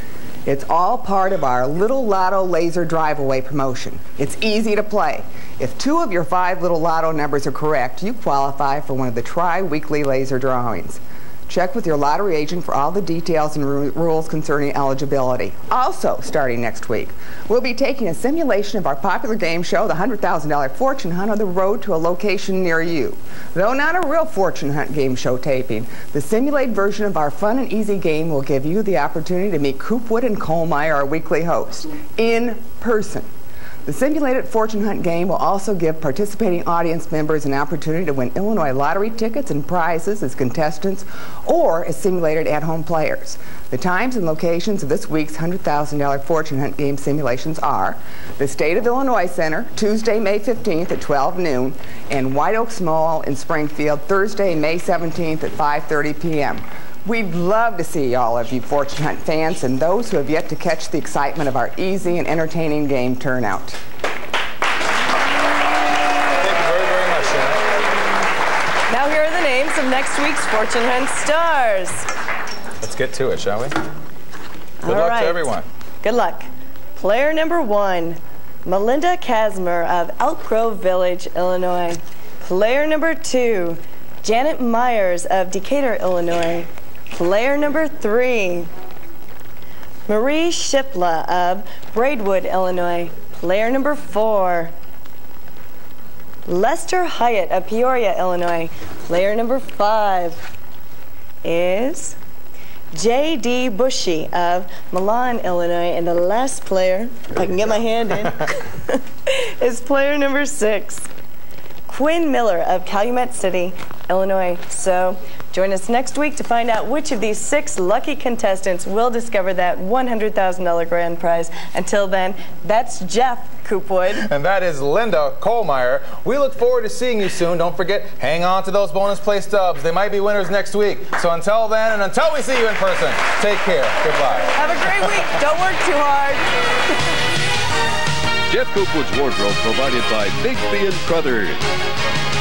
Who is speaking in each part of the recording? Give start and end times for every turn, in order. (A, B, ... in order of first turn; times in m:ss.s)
0:00.4-0:33.2 A
0:33.8-1:03.8 A
1:06.4-1:07.6 B
1:08.9-1:12.0 C
1:12.8-1:13.7 B
1:14.8-1:15.4 C
1:14.8-1:15.6 B
1:16.0-1:28.7 C
1:30.1-1:34.7 C
1:36.5-1:40.5 C
1:41.4-1:42.2 C
1:42.9-1:51.1 C
1:51.9-2:04.2 C
2:04.2-2:14.6 B
2:14.5-2:16.5 C
2:18.5-2:21.7 D